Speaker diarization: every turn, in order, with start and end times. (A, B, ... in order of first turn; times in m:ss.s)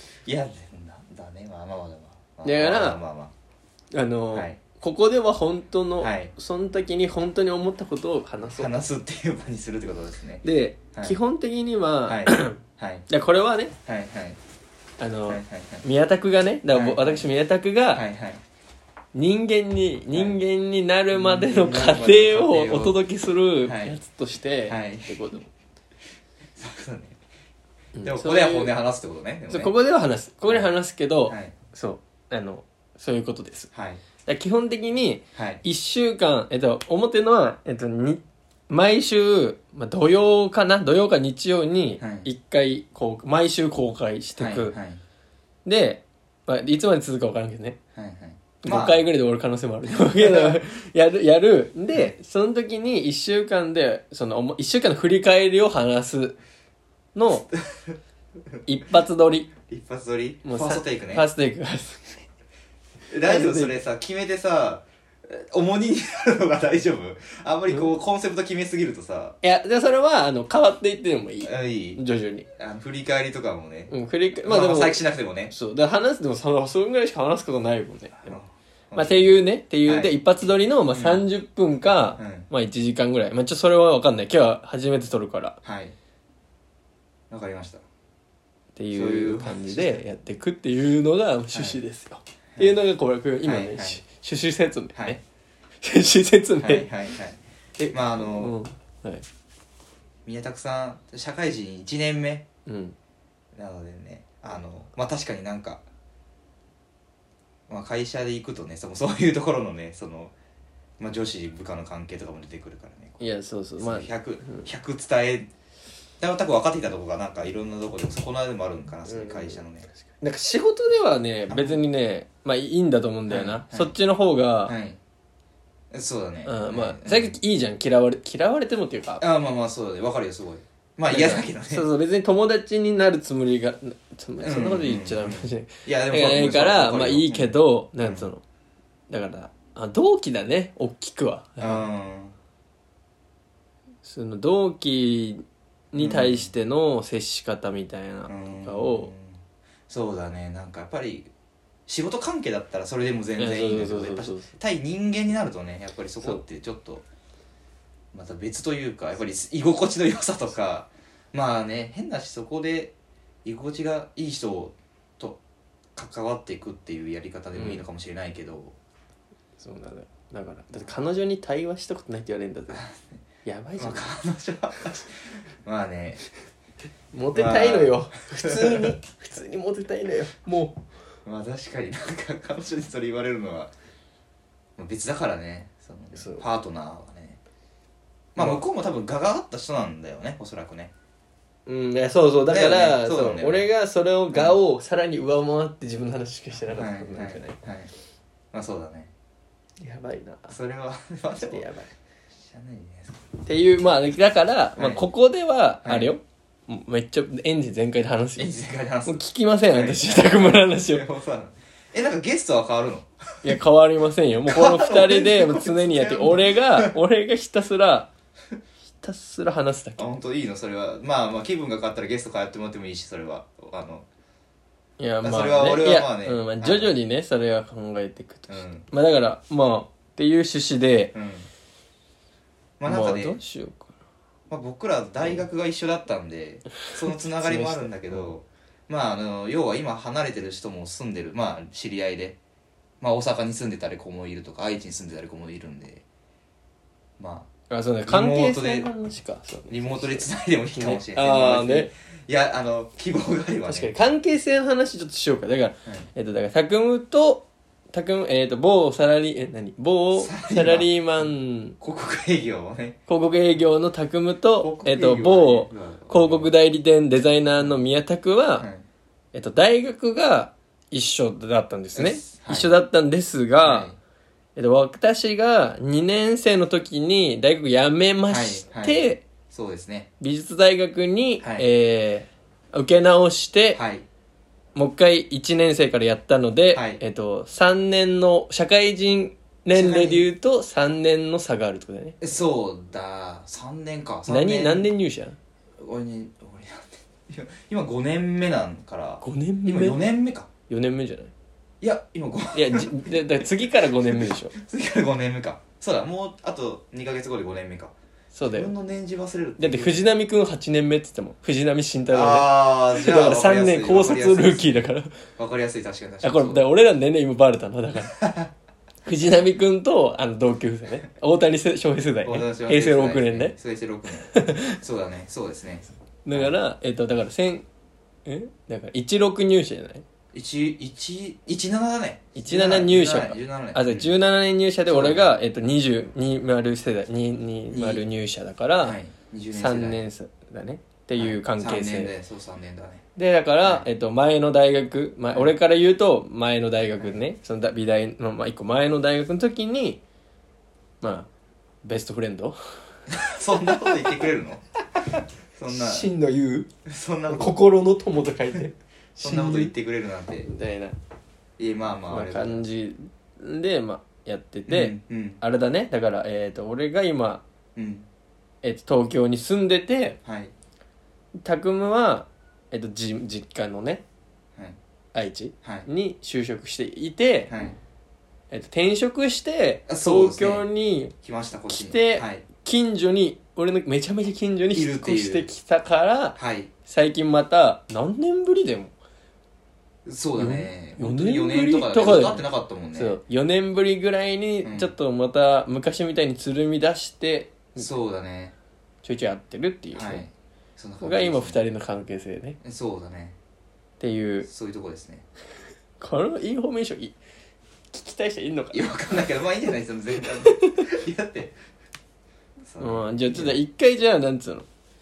0:00.2-0:03.3 A
0:02.4-0:03.0 B
0:03.9-0:08.8 B
0:04.3-0:04.6 A
0:06.0-0:06.3 A
0:08.5-0:10.4 A
0:10.4-0:13.7 B
0:12.0-0:13.0 A
0:13.8-0:14.4 A
0:15.0-0:18.0 B
0:15.3-0:15.8 A
0:16.7-0:17.3 A
0:17.9-0:18.4 A
0:19.1-0:25.5 B
0:20.1-0:20.4 A
0:21.1-0:23.0 A
0:23.6-0:24.0 A
0:24.7-0:25.2 A
0:26.6-0:27.2 A
0:27.9-0:28.7 B
0:28.0-0:29.7 A
0:29.5-0:33.7 B
0:31.3-0:31.5 A
0:33.7-0:34.0 A
0:34.2-0:44.7 B
0:35.3-0:35.6 A
0:42.0-0:42.3 A
0:44.4-0:45.0 A
0:45.6-0:47.8 B
0:47.9-0:49.0 A
0:48.6-0:56.4 B
0:49.9-0:50.6 A
0:57.1-0:57.5 B
0:57.7-0:57.9 A
0:58.6-0:59.5 B
0:59.7-1:01.3 A
1:00.4-1:02.2 B
1:03.1-1:09.4 A
1:03.2-1:03.7 B
1:09.4-1:12.5 B
1:11.4-1:12.0 A
1:12.5-1:13.9 A
1:13.9-1:15.0 B
1:14.4-1:15.5 A
1:15.5-1:18.4 B
1:18.3-1:20.1 A
1:18.9-1:25.6 B
1:20.9-1:21.2 A
1:22.2-1:22.5 A
1:25.6-1:25.9 A
1:27.3-1:27.8 A
1:28.8-1:35.2 B
1:28.9-1:30.0 A
1:31.5-1:31.8 A
1:33.4-1:34.0 A
1:34.9-1:35.2 A
1:35.8-1:36.9 B
1:36.6-1:38.6 A
1:38.2-1:39.2 B
1:40.2-1:42.4 A
1:42.6-1:43.0 B
1:43.5-1:45.8 A
1:47.7-1:50.3 A
1:51.0-1:53.2 A
1:53.2-1:54.7 B
1:53.8-1:55.5 A
1:56.2-1:59.9 A
1:59.0-1:59.6 B
2:00.2-2:04.7 B
2:01.5-2:01.8 A
2:03.3-2:03.9 A
2:04.6-2:05.0 A
2:05.9-2:07.3 A
2:06.4-2:09.2 B
2:09.2-2:11.8 A
2:11.1-2:18.4 B
2:14.4-2:18.3 A
2:19.1-2:21.9 B
2:21.6-2:22.3 A
2:24.0-2:29.1 B
2:26.0-2:26.5 A
2:28.3-2:31.3 A
2:31.9-2:37.0 A
2:33.4-2:34.5 B
2:38.1-2:42.9 A
2:43.4-2:45.4 A
2:45.9-2:48.7 A
2:47.5-2:47.8 B
2:49.6-2:52.9 B
2:52.7-2:53.2 A
2:53.4-2:54.1 B
2:53.8-2:56.2 A
2:57.1-3:00.8 B
2:57.3-2:59.0 A
3:01.2-3:03.7 A
3:04.8-3:07.4 A
3:06.1-3:06.4 B
3:08.3-3:10.9 A
3:08.4-3:08.6 B
3:11.6-3:17.6 B
3:12.5-3:13.7 A
3:14.3-3:14.6 A
3:16.7-3:17.9 A
3:18.5-3:19.1 A
3:19.8-3:20.5 B
3:20.5-3:21.7 A
3:21.4-3:21.9 B
3:22.4-3:23.3 A
3:23.4-3:28.5 B
3:24.8-3:25.0 A
3:25.8-3:26.1 A
3:28.4-3:33.6 A
3:29.0-3:31.0 B
3:33.4-3:38.1 B
3:34.4-3:36.9 A
3:39.0-3:40.1 B
3:40.0-3:44.0 A
3:45.0-3:51.2 B
3:45.2-3:46.9 A
3:48.5-3:48.8 A
3:51.1-3:51.5 A
3:52.8-3:53.4 A
3:52.8-3:53.9 B
3:54.5-4:02.4 A
3:56.8-3:58.3 B
4:03.0-4:06.0 A
4:07.2-4:07.5 A
4:07.7-4:11.9 B
4:08.1-4:08.9 A
4:09.7-4:13.9 A
4:13.7-4:21.8 B
4:20.1-4:21.3 A
4:21.8-4:23.0 A
4:23.1-4:28.7 B
4:24.6-4:26.5 A
4:28.6-4:28.8 A
4:29.3-4:33.9 B
4:31.9-4:32.7 A
4:33.6-4:34.0 A
4:34.6-4:39.2 B
4:38.3-4:40.1 A
4:40.2-4:43.8 B
4:43.7-4:44.0 A
4:44.7-4:52.2 B
4:46.7-4:47.0 A
4:49.7-4:50.3 A
4:52.2-4:54.9 A
4:54.3-4:55.4 B
4:55.8-5:00.5 A
4:59.2-5:00.0 B
5:00.7-5:01.3 B
5:01.8-5:10.0 A
5:02.5-5:04.5 B
5:08.3-5:08.7 B
5:09.6-5:15.2 B
5:12.1-5:16.6 A
5:16.2-5:18.2 B
5:18.1-5:18.5 A
5:19.0-5:23.5 B
5:22.2-5:26.5 A
5:24.2-5:24.8 B
5:26.2-5:27.6 B
5:28.2-5:30.0 B
5:30.3-5:34.1 A
5:32.3-5:39.0 B
5:34.9-5:35.3 A
5:37.7-5:38.0 A
5:38.8-5:40.0 A
5:39.5-5:42.1 B
5:41.2-5:43.0 A
5:43.2-5:50.0 B
5:51.0-5:51.3 B
5:51.8-5:52.6 B
5:53.1-5:56.1 A
5:55.7-5:56.7 B
5:56.8-5:57.6 A
5:57.3-5:59.7 B
5:59.2-6:00.5 A
6:00.4-6:01.0 B
6:01.6-6:02.6 A
6:02.1-6:07.4 B
6:04.7-6:05.4 A
6:07.8-6:08.0 A
6:08.6-6:10.2 B
6:10.2-6:10.5 A
6:11.4-6:14.0 B
6:15.1-6:17.5 B
6:15.6-6:15.9 A
6:17.5-6:17.8 A
6:18.5-6:21.1 B
6:19.9-6:20.6 A
6:21.2-6:22.4 A
6:21.7-6:28.9 B
6:24.7-6:25.5 A
6:26.4-6:26.7 A
6:30.0-6:33.2 A
6:30.4-6:37.8 B
6:34.6-6:34.9 A
6:37.8-6:38.5 A
6:39.0-6:40.2 B
6:39.9-6:41.6 A
6:41.0-6:42.6 B
6:42.6-6:43.4 A
6:44.0-6:44.5 B
6:44.5-6:45.2 A
6:46.0-6:47.1 B
6:47.9-6:48.9 B
6:48.7-6:51.5 A
6:50.4-6:50.8 B
6:52.6-6:53.6 A
6:52.8-6:54.7 B